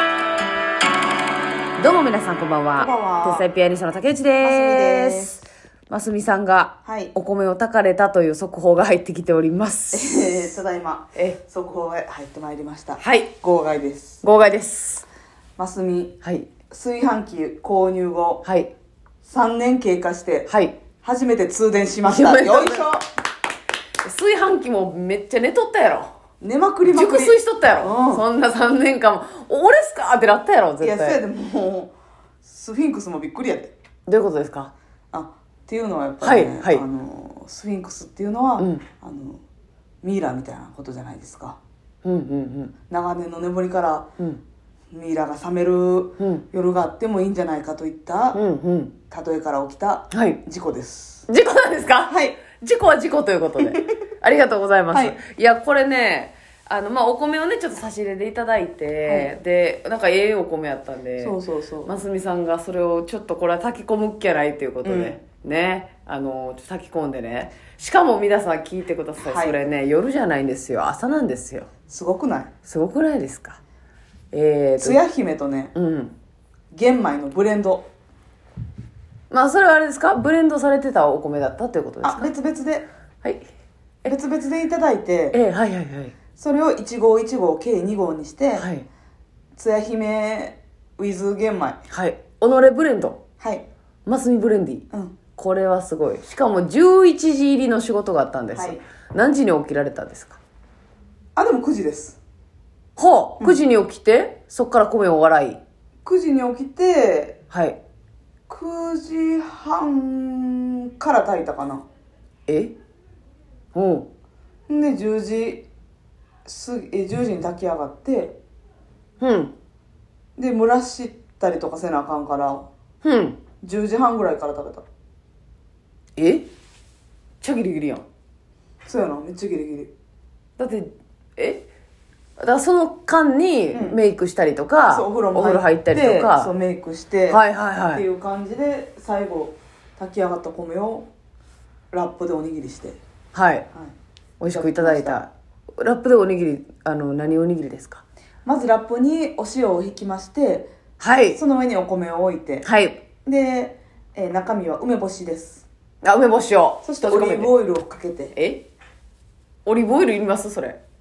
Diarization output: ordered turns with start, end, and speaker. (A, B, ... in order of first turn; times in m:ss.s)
0:01.8-0:10.6 A
0:02.8-0:03.5 B
0:04.4-0:05.4 B
0:06.8-0:07.1 B
0:09.9-0:14.2 B
0:13.0-0:13.3 A
0:14.2-0:15.0 A
0:15.6-0:16.2 B
0:16.2-0:16.5 A
0:16.7-0:18.4 B
0:18.4-0:18.7 A
0:19.2-0:20.5 B
0:20.5-0:20.8 A
0:21.0-0:23.0 B
0:22.0-0:22.9 A
0:24.0-0:26.1 A
0:26.4-0:28.2 B
0:26.8-0:31.2 A
0:30.8-0:33.7 B
0:34.1-0:34.7 A
0:35.1-0:39.4 B
0:36.2-0:36.8 A
0:38.6-0:38.8 A
0:40.0-0:41.6 B
0:42.0-0:42.7 A
0:42.9-0:44.1 B
0:44.9-0:48.4 B
0:46.2-0:46.4 A
0:48.3-0:48.9 A
0:49.1-0:51.3 B
0:50.1-0:50.4 A
0:51.3-1:11.7 A
0:52.1-0:52.4 B
0:54.9-0:55.2 B
0:59.0-0:59.3 B
1:01.2-1:01.9 B
1:04.8-1:05.2 B
1:09.2-1:09.6 B
1:11.9-1:12.5 B
1:12.6-1:13.6 A
1:14.3-1:15.0 A
1:14.8-1:15.7 B
1:15.7-1:16.1 A
1:16.7-1:17.9 B
1:19.3-1:22.3 A
1:22.0-1:22.9 B
1:24.0-1:25.4 B
1:25.3-1:26.1 A
1:26.4-1:28.7 B
1:28.6-1:28.8 A
1:29.6-1:31.8 B
1:31.9-1:33.2 A
1:33.4-1:33.6 B
1:34.0-1:34.8 A
1:34.9-1:35.2 B
1:35.4-1:40.4 A
1:38.5-1:38.8 B
1:41.4-1:42.2 B
1:43.0-1:45.6 A
1:46.0-1:47.4 B
1:47.5-1:47.8 A
1:48.5-1:51.8 B
1:52.5-1:52.7 A
1:53.7-1:54.1 A
1:54.7-1:55.7 B
1:56.4-1:58.4 B
1:59.2-1:59.5 A
2:00.4-2:02.7 B
2:03.0-2:03.4 A
2:03.6-2:04.8 B
2:06.2-2:06.5 A
2:07.4-2:08.0 A
2:08.8-2:09.9 B
2:10.6-2:11.7 A
2:12.4-2:16.5 A
2:13.7-2:14.0 B
2:14.9-2:21.1 B
2:17.3-2:18.0 A
2:21.9-2:23.0 B
2:23.3-2:23.7 A
2:24.4-2:28.0 A
2:24.5-2:25.2 B
2:28.4-2:30.7 B
2:31.0-2:31.4 A
2:31.3-2:32.7 B
2:32.6-2:33.0 A
2:33.2-2:35.6 B
2:36.0-2:37.5 A
2:36.8-2:38.3 B
2:38.3-2:38.7 A
2:39.6-2:40.8 A